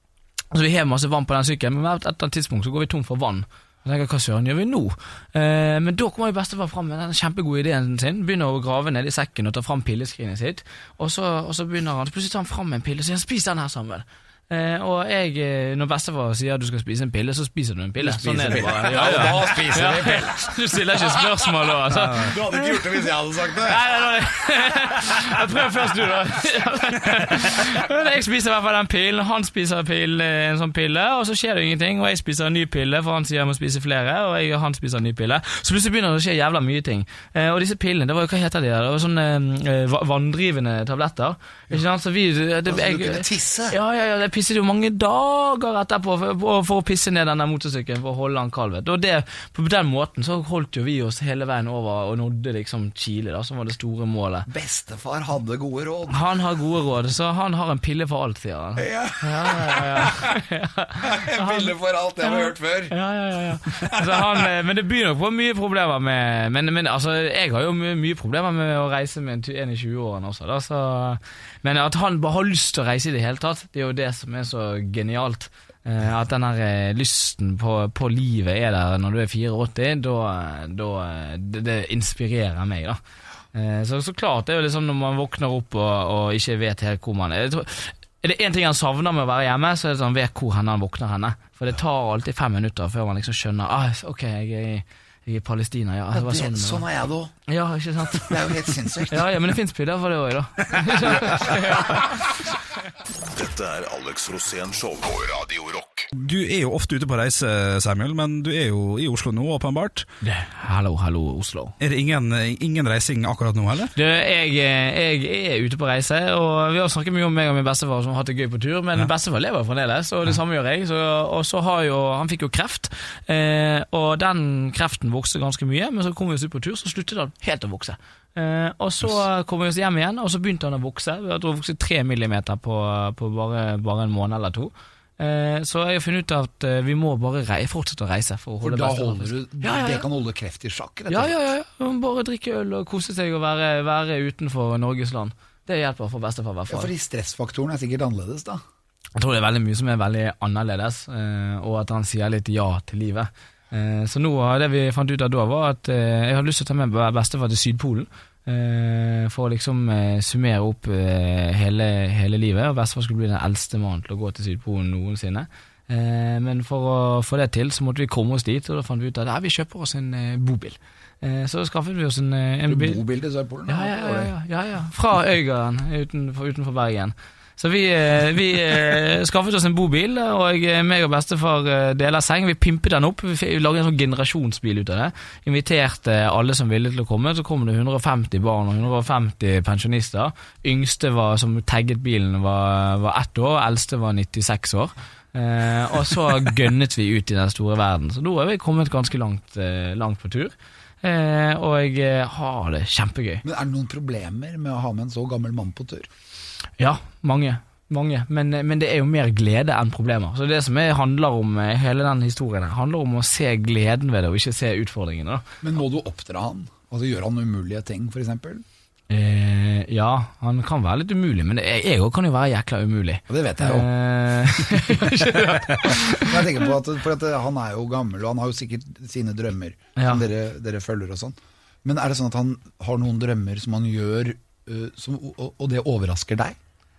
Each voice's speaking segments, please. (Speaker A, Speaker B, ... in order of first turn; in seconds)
Speaker A: 0.5-23.0, 23.6-54.5, 56.1-83.0, 83.5-96.8, 97.5-102.2, 110.2-111.8, 113.9-140.0, 141.1-146.9, 149.2-173.0, 173.7-203.4, 206.8-215.4, 219.1-226.7, 229.9-230.2
Speaker B: 18.0-21.5, 22.1-23.8, 42.7-43.8, 54.5-56.2, 58.8-60.3, 61.0-62.9, 96.1-97.3, 98.1-99.3, 101.0-101.5, 138.6-141.3, 146.7-148.6, 172.7-174.3, 203.4-206.1, 215.6-218.6, 223.3-223.9, 224.7-236.6
Speaker C: 21.9-22.3, 106.1-110.1, 111.8-113.9
Speaker D: 103.0-106.1